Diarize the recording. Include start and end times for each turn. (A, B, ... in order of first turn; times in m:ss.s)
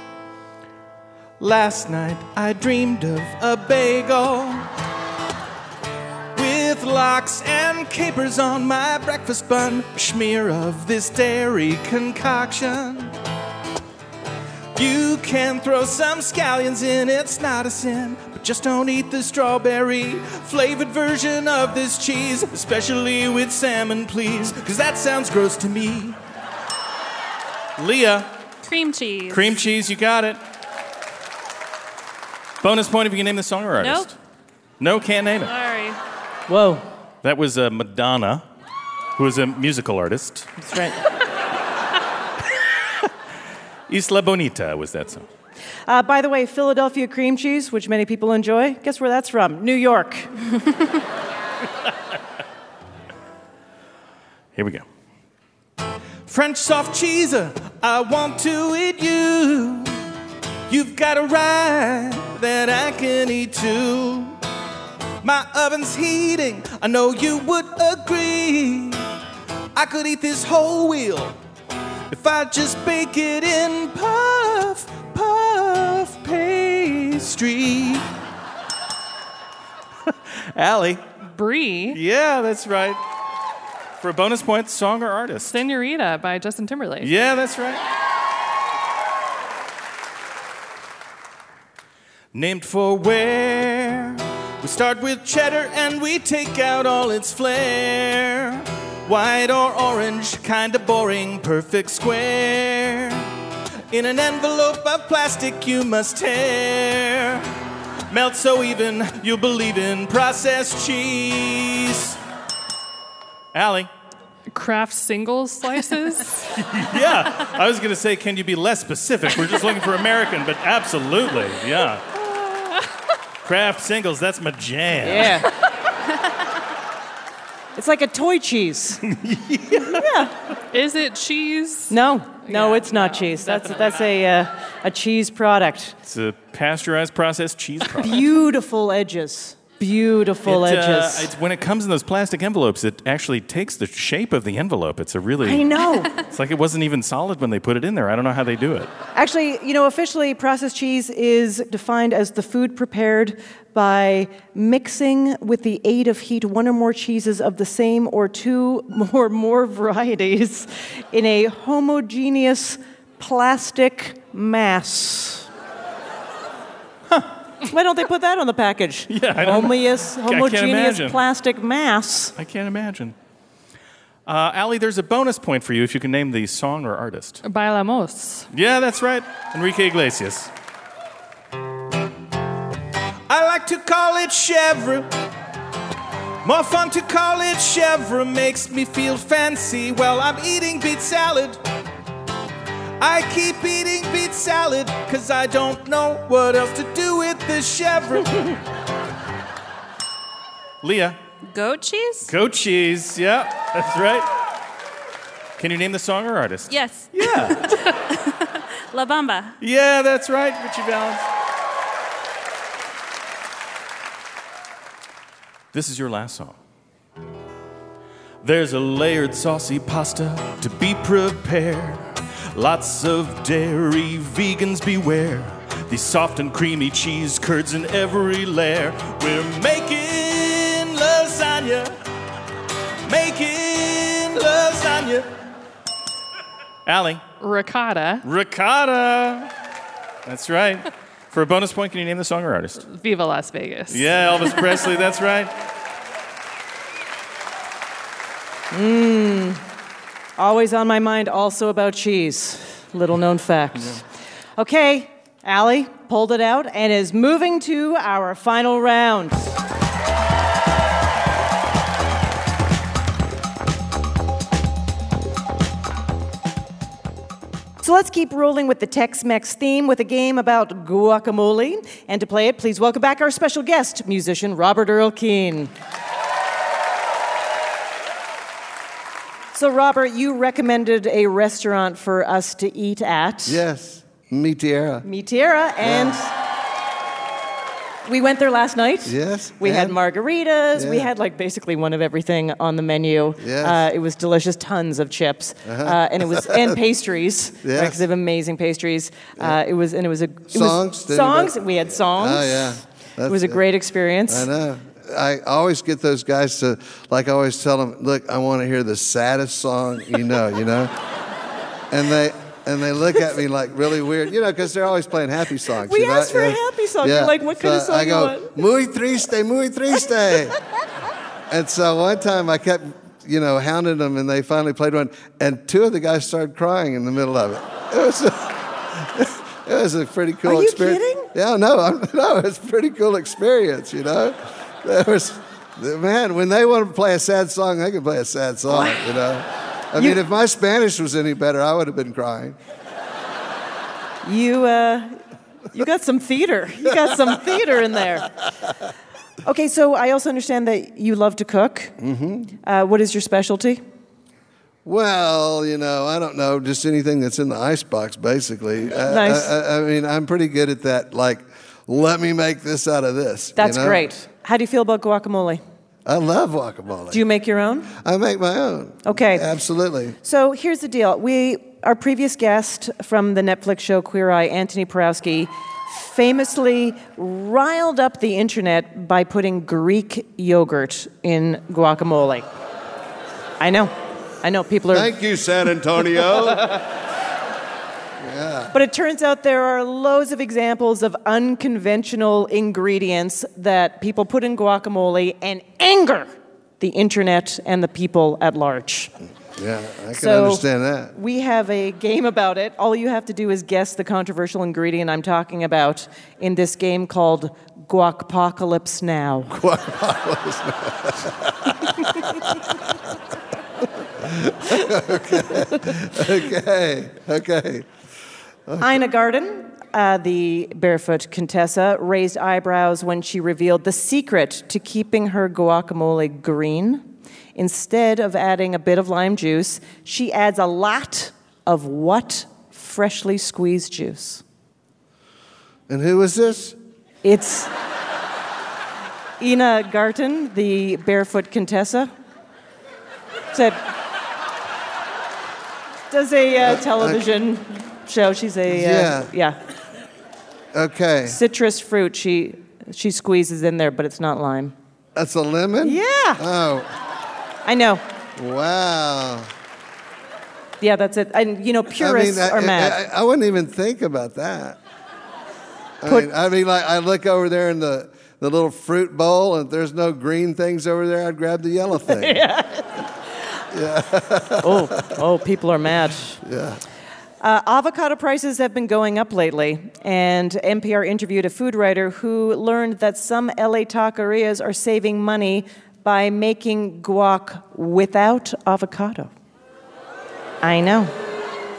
0:01.4-0:04.7 A
0:06.4-0:13.1 A
0:14.7-0:26.2 A
0:27.8-0:28.3 A
0:28.6-0:29.6 B
0:29.3-0:30.4 A
0:32.6-0:34.1 A
0:33.8-0:34.1 B
0:34.8-0:35.5 A
0:35.4-0:36.0 B
0:36.5-0:36.9 C
0:37.2-0:38.4 A
0:39.2-0:40.5 A
0:40.6-0:41.0 C
0:43.9-0:45.3 A
0:45.9-0:50.3 C
0:54.6-0:54.8 A
0:56.3-1:00.0 A
1:00.7-1:04.4 A
1:05.2-1:09.0 A
1:09.7-1:11.4 A
1:12.1-1:18.1 A
1:20.1-1:21.0 A
1:21.2-1:22.0 D
1:21.9-1:23.0 A
1:24.0-1:25.6 A
1:25.4-1:27.1 D
1:27.0-1:27.8 A
1:32.3-1:43.3 A
1:43.9-1:47.5 A
1:48.1-1:52.2 A
1:53.5-1:53.9 A
1:54.5-1:56.6 D
1:56.6-2:02.0 A
2:02.1-2:02.9 D
2:03.4-2:05.4 A
2:05.0-2:05.5 C
2:07.8-2:09.0 C
2:09.1-2:10.0 A
2:09.9-2:10.3 C
2:10.7-2:14.1 D
2:11.9-2:16.0 C
2:16.1-2:18.3 A
2:18.0-2:21.3 C
2:20.4-2:28.9 A
2:25.4-2:26.1 C
2:29.1-2:45.5 C
2:47.7-2:52.3 C
2:49.1-2:51.2 A
2:52.4-2:53.1 A
2:54.3-2:57.4 A
2:57.4-2:58.5 D
2:58.5-3:00.5 A
3:03.3-3:05.1 A
3:06.4-3:11.6 A
3:13.0-3:18.6 A
3:20.8-3:21.2 A
3:21.4-3:22.3 B
3:22.3-3:24.3 A
3:25.6-3:27.8 A
3:26.7-3:29.6 B
3:29.6-3:31.3 A
3:35.7-3:36.6 A
3:38.4-3:51.9 A
3:53.1-3:55.3 A
3:56.9-3:57.2 A
3:57.4-3:58.2 D
3:58.2-3:59.5 A
4:00.3-4:02.8 A
4:02.8-4:04.7 D
4:03.9-4:05.5 A
4:08.7-4:09.6 C
4:10.4-4:14.0 C
4:14.6-4:19.6 C
4:27.8-4:35.7 C
4:39.5-4:43.6 C
4:43.5-4:45.1 E
4:45.0-4:46.3 C
4:45.8-4:46.2 E
4:48.1-5:04.5 C
4:49.1-4:50.0 E
4:50.7-4:51.1 E
4:53.4-4:53.8 E
4:55.6-4:56.7 E
4:57.6-4:58.0 E
5:00.5-5:03.6 E
5:04.3-5:10.9 E
5:11.9-5:20.6 E
5:15.8-5:18.5 C
5:21.5-5:42.6 E
5:30.4-5:31.3 C
5:38.7-5:39.0 C
5:44.2-5:45.2 C
5:45.7-5:48.3 C
5:46.9-5:47.6 E
5:49.4-5:52.0 C
5:52.0-5:52.5 E
5:52.6-5:53.8 C
5:54.8-6:04.0 E
5:59.1-5:59.5 C
6:03.6-6:05.6 C
6:06.0-6:07.2 E
6:07.1-6:07.9 C
6:08.0-6:10.2 E
6:09.0-6:09.4 C
6:10.2-6:22.4 C
6:23.6-6:25.1 C
6:24.9-6:26.8 E
6:28.2-6:28.7 E
6:28.7-6:36.3 C
6:36.8-6:39.1 C
6:39.6-6:41.1 E
6:40.1-6:49.5 C
6:49.5-6:52.7 E
6:54.2-6:57.9 E
6:58.7-6:59.0 E
6:58.8-7:14.4 C
7:15.9-7:16.8 E
7:17.2-7:17.7 C
7:19.4-7:22.1 C
7:23.5-7:23.8 C
7:26.1-7:29.6 C
7:26.6-7:27.2 E
7:28.7-7:29.3 E
7:30.7-7:31.4 E
7:31.3-7:34.7 C
7:35.2-7:36.9 E
7:35.8-7:36.4 C
7:37.6-7:38.0 C
7:38.4-7:39.5 E
7:40.8-7:43.0 C
7:42.0-7:44.8 E
7:46.0-7:52.4 E
7:52.1-7:53.0 C
7:53.7-7:55.2 E
7:54.6-7:56.4 C
7:56.4-7:56.8 E
7:57.4-8:09.3 C
8:10.6-8:11.1 C